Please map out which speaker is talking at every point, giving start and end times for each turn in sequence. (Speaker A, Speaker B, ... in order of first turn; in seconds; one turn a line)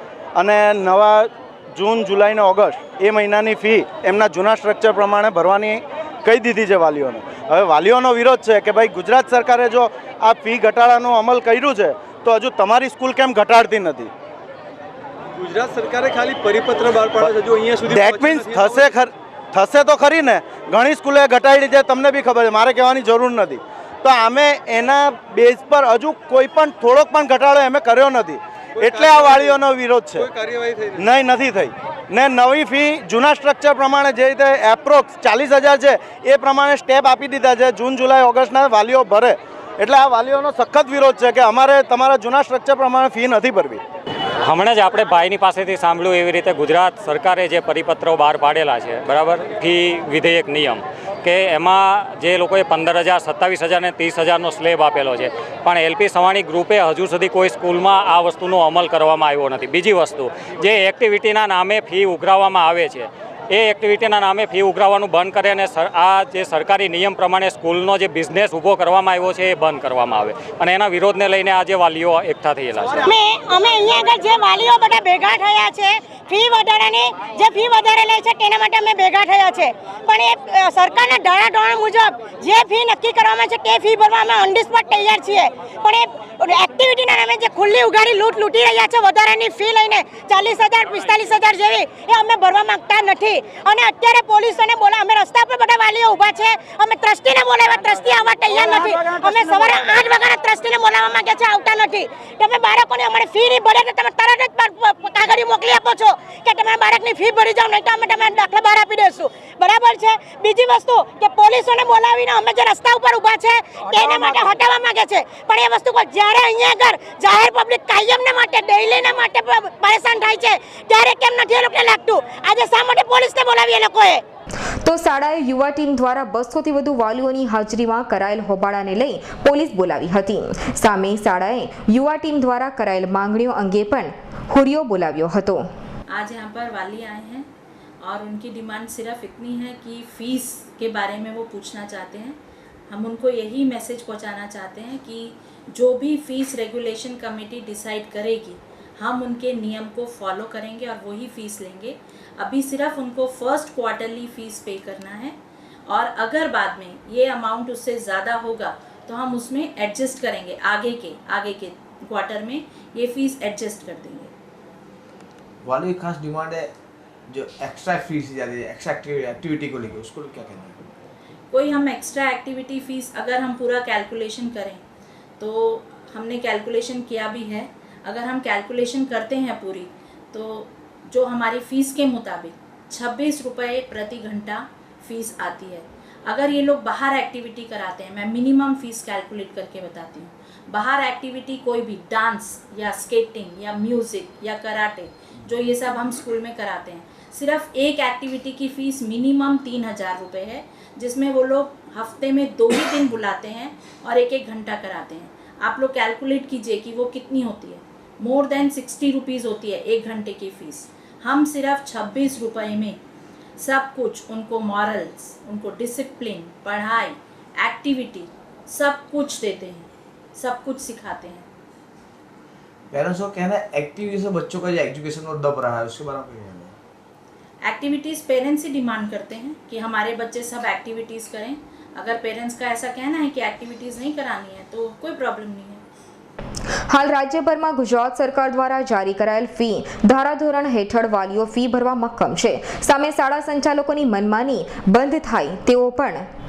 Speaker A: 0.3-14.1
Speaker B: 15.4-18.9
Speaker A: 17.1-30.3
Speaker B: 28.8-29.6
Speaker B: 30.2-31.0
Speaker A: 30.9-43.8
Speaker C: 44.5-73.1
Speaker D: 73.1-124.2
Speaker E: 124.8-135.7
Speaker F: 136.1-137.5
Speaker F: 138.0-155.4
Speaker F: 155.9-164.3
Speaker G: 165.6-166.7
Speaker G: 167.3-170.9
Speaker F: 171.5-174.8
Speaker F: 175.4-213.0
Speaker F: 213.6-221.5
Speaker G: 222.9-226.8
Speaker F: 227.7-235.8
Speaker E: 236.9-246.2